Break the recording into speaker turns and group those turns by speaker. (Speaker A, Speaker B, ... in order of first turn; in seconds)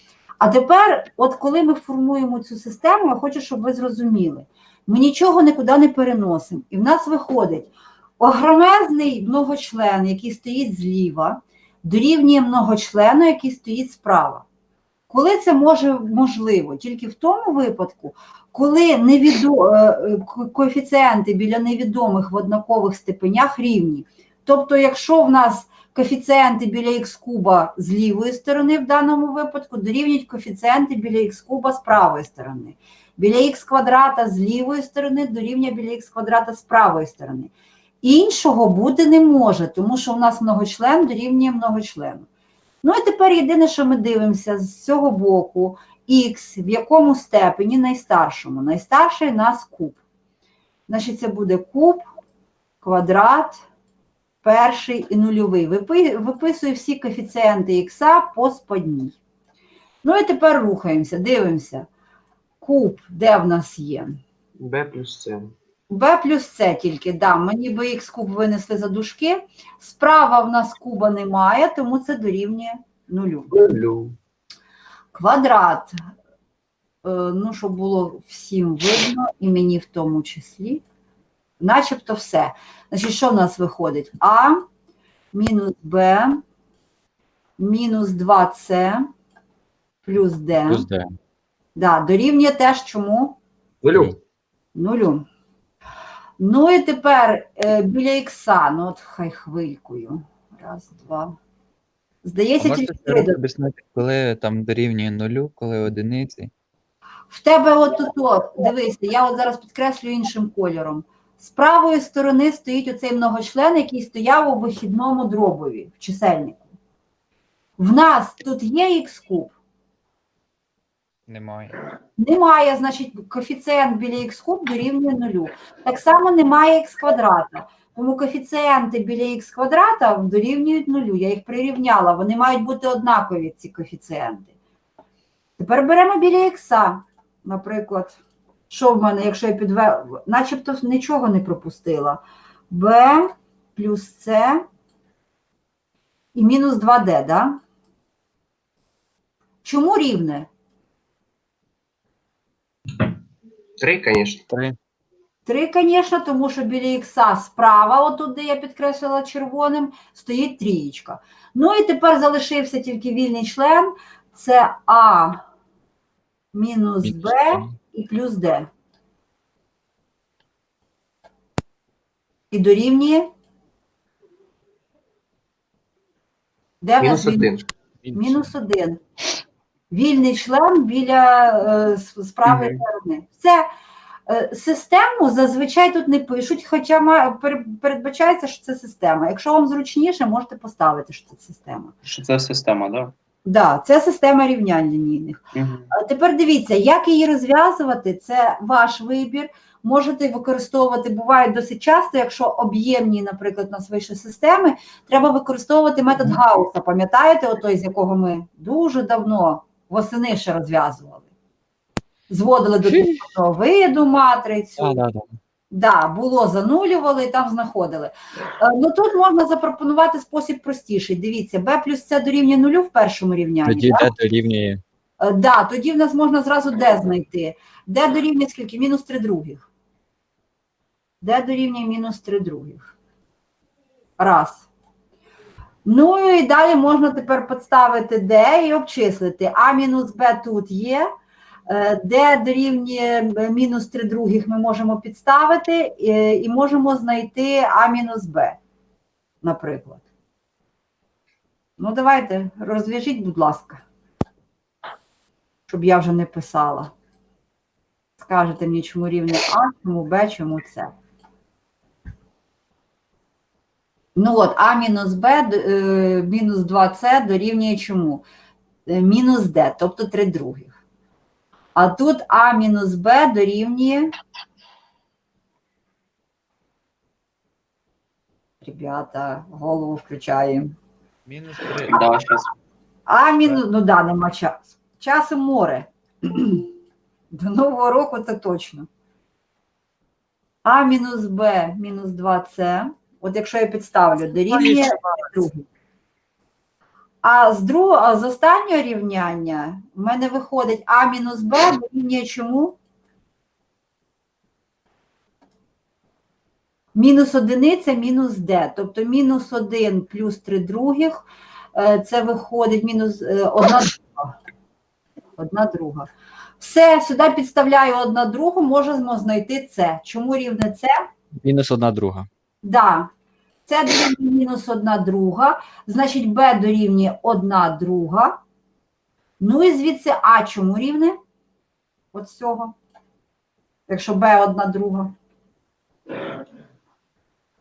Speaker A: 0.4-14.4, 15.1-42.3, 42.8-50.0, 50.9-52.0, 52.8-53.6, 54.4-59.2, 60.0-61.9, 62.6-64.2, 65.9-73.5, 75.1-75.9, 77.0-80.8, 81.6-84.6, 85.3-86.4, 87.6-89.0, 90.0-90.8, 91.8-93.4, 94.7-95.2, 96.4-101.3, 102.2-103.4, 107.3-116.7, 117.8-119.5, 122.2-134.5, 135.6-144.6, 146.3-147.6, 149.6-150.5, 155.4-165.4, 166.5-168.7, 172.5-173.3, 176.8-177.5, 178.1-179.0, 179.9-183.7, 184.3-191.9, 193.4-195.4, 195.9-211.2, 212.3-215.0, 215.7-224.1, 225.2-229.6, 231.2-232.9, 234.2-234.7, 235.8-241.1, 241.7-248.6, 249.4-250.0, 251.8-253.8, 255.7-256.9, 258.2-260.9, 264.1-268.2, 268.9-270.8, 271.8-274.1, 278.6-280.7, 283.1-286.7, 287.3-288.9, 290.6-295.7, 297.2-302.8, 306.9-314.3, 315.4-316.1, 316.6-320.9, 322.6-323.1, 323.7-328.4, 329.4-331.1, 332.1-332.7, 333.9-335.1
Speaker B: 64.6-65.5, 73.5-74.2, 93.8-94.2, 153.8-154.4, 177.0-177.7
Speaker C: 90.7-91.1, 154.5-154.8, 167.0-167.7, 212.8-213.2, 214.8-215.3, 223.6-224.8, 321.3-322.3
Speaker D: 102.6-106.5, 121.3-121.7, 178.0-178.5, 281.3-282.1
Speaker E: 182.4-182.8, 192.0-193.1, 195.5-195.9, 281.9-282.4